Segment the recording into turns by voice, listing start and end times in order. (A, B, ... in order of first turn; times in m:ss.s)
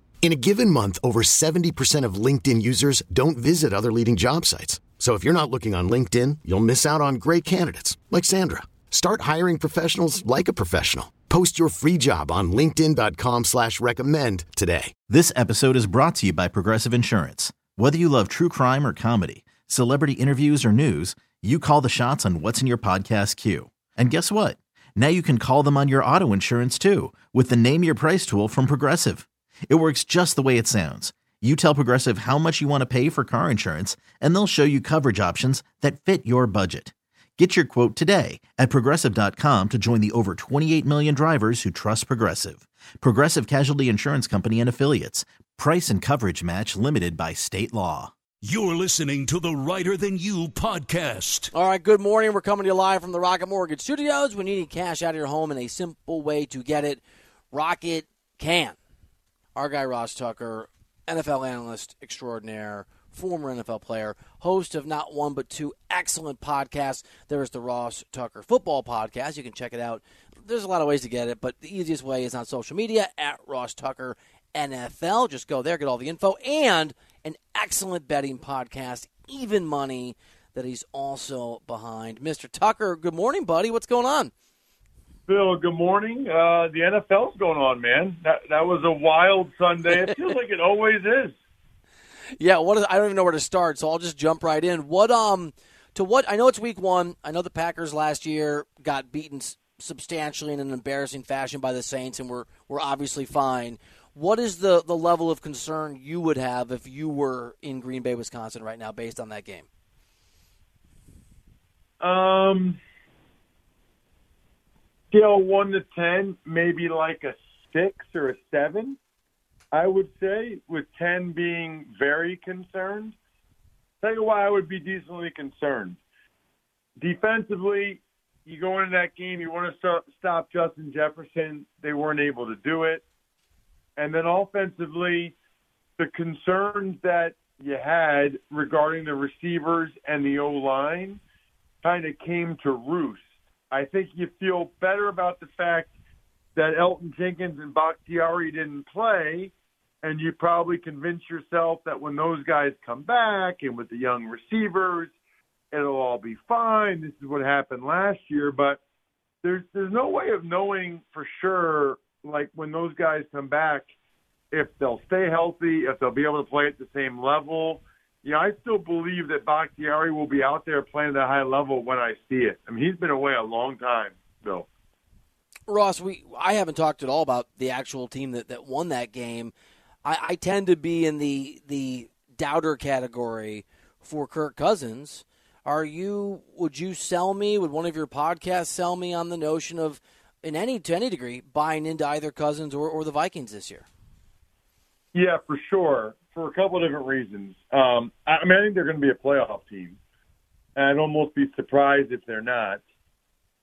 0:00.2-0:15.0 A
0:15.1-0:48.1 B
0:48.4-0:51.5 C
0:51.5-0:57.0 D
0:57.5-0:58.8 D
0:59.6-1:24.3 D
1:25.3-1:31.4 E
1:32.4-1:49.7 D
1:52.0-1:52.8 E
1:55.1-1:59.0 E
1:59.7-2:03.2 E
2:04.0-2:06.0 E
2:07.0-2:13.0 E
2:14.0-2:15.3 E
2:16.0-2:21.2 E
2:21.8-2:25.9 E
2:26.6-2:29.5 E
2:30.0-2:35.1 E
2:35.7-2:38.8 E
2:39.4-2:43.9 E
2:44.5-2:54.7 E
2:55.7-2:59.5 D
3:00.0-3:13.9 D
3:15.1-3:20.0 E
3:20.8-3:22.8 E